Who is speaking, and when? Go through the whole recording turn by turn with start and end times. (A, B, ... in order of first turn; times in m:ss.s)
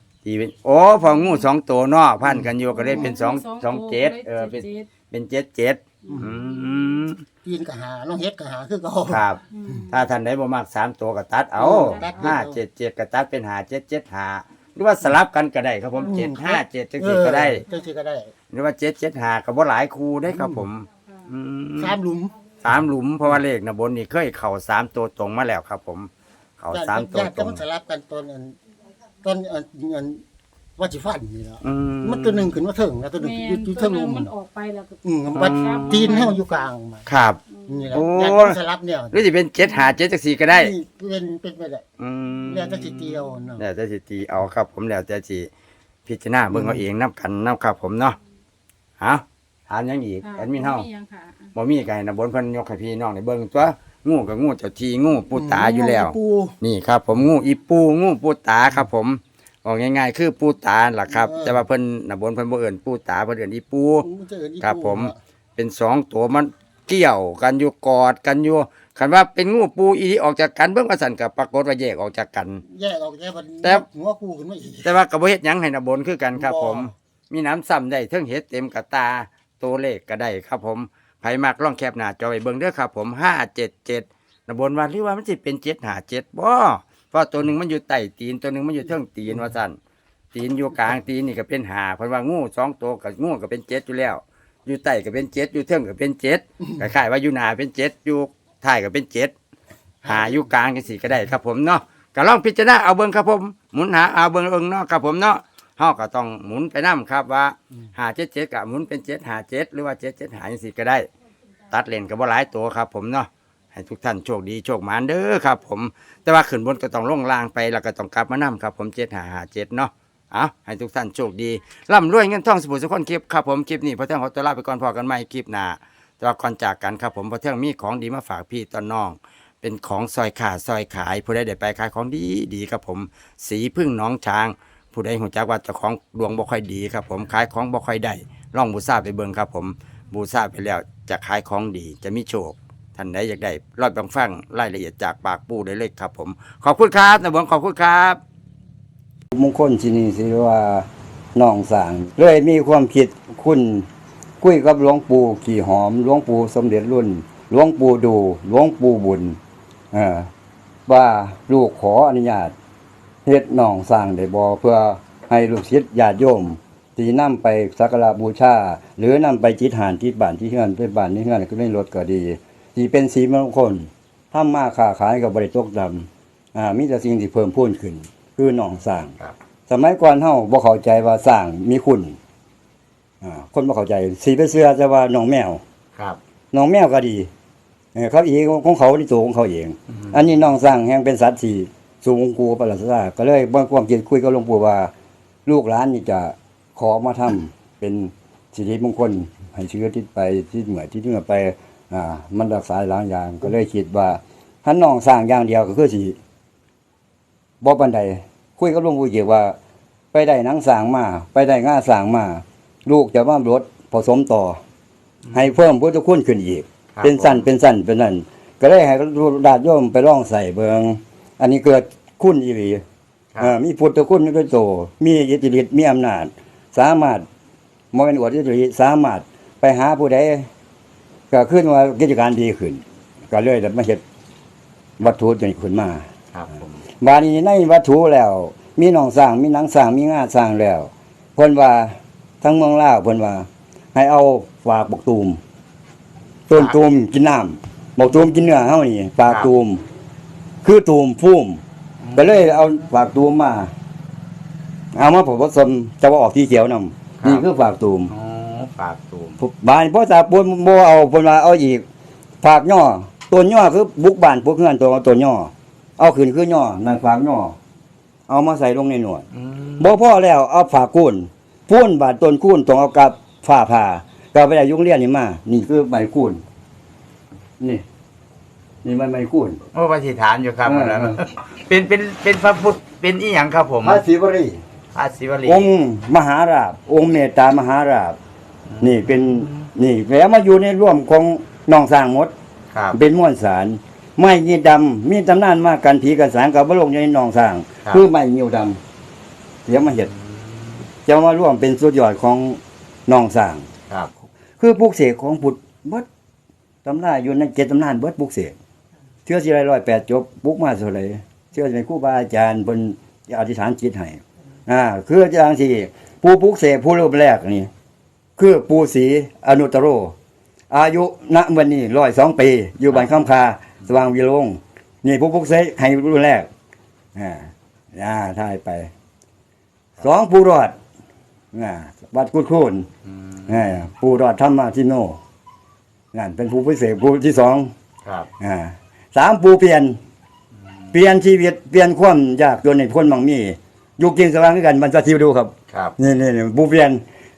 0:00.2-0:07.2 A
0:02.2-0:03.1 B
0:02.7-0:04.9 C
0:06.0-0:06.9 C
0:06.1-0:06.3 B
0:07.4-0:09.9 B
0:09.1-0:17.6 A
0:09.5-0:10.0 C
0:11.6-0:12.6 B
0:11.7-0:12.3 C
0:16.0-0:18.3 B
0:18.5-0:22.0 A
0:20.3-0:20.7 B
0:21.8-0:22.4 B
0:22.6-0:27.6 A
0:26.7-0:28.6 B
0:29.2-0:30.2 B
0:30.8-0:34.3 B
0:31.6-0:32.6 A
0:33.2-0:36.4 C
0:35.0-0:37.1 B
0:35.3-0:36.3 A
0:37.1-0:37.4 A
0:37.6-0:38.0 C
0:37.7-0:39.2 B
0:37.9-0:38.6 A
0:39.1-0:40.7 A
0:40.5-0:41.8 B
0:42.0-0:45.5 A
0:42.4-0:43.6 B
0:46.1-0:48.2 A
0:46.5-0:46.8 B
0:49.0-0:50.9 A
0:50.2-0:51.5 C
0:51.5-1:04.0 A
0:55.3-0:56.6 B
1:01.1-1:01.6 B
1:04.0-1:05.2 B
1:04.6-1:12.6 A
1:12.6-1:15.0 B
1:14.8-1:29.8 A
1:16.4-1:16.9 B
1:30.3-1:39.3 A
1:40.0-1:51.1 A
1:40.0-1:40.5 B
1:51.7-2:28.2 A
2:29.3-2:33.9 D
2:34.4-2:39.4 D
2:39.9-2:40.3 D
2:40.9-2:42.5 D
2:43.2-2:59.2 D
2:59.7-3:02.2 D
3:03.2-3:05.6 D
3:06.5-3:07.3 D
3:08.0-3:14.9 D
3:15.5-3:26.2 D
3:27.6-3:29.6 D
3:30.1-3:34.6 D
3:35.3-3:42.8 D
3:37.0-3:37.5 A
3:43.4-3:47.3 D
3:47.9-3:50.5 D
3:51.3-3:54.0 D
3:55.0-3:56.1 D
3:56.3-3:56.8 A
3:57.0-4:05.4 D
4:06.5-4:09.8 D
4:10.6-4:11.6 D
4:12.0-4:12.5 A
4:12.2-4:13.7 D
4:14.9-4:18.1 D
4:18.1-4:19.4 A
4:19.4-4:21.8 D
4:22.4-4:27.6 D
4:28.3-4:29.3 D
4:29.3-4:29.9 A
4:29.8-4:36.4 D
4:37.6-4:37.8 D
4:38.8-4:39.6 D
4:39.7-4:44.0 A
4:40.6-4:41.2 D
4:43.8-4:44.6 D
4:44.9-4:45.7 A
4:45.4-4:48.2 D
4:48.7-4:49.7 A
4:48.8-4:52.3 D
4:52.7-4:53.0 A
4:52.9-4:58.8 D
4:59.7-5:00.1 D
5:00.0-5:00.9 A
5:01.1-5:03.7 D
5:04.6-5:06.1 D
5:06.8-5:08.6 D
5:09.3-5:17.7 D
5:18.4-5:20.1 D
5:20.7-5:26.5 D
5:27.2-5:28.9 D
5:30.0-5:30.8 D
5:31.5-5:32.9 D
5:33.1-5:33.6 A
5:33.5-5:35.2 D
5:36.1-5:37.7 D
5:38.0-5:38.3 A
5:38.4-5:40.0 D
5:40.9-5:47.0 D
5:45.7-5:46.0 A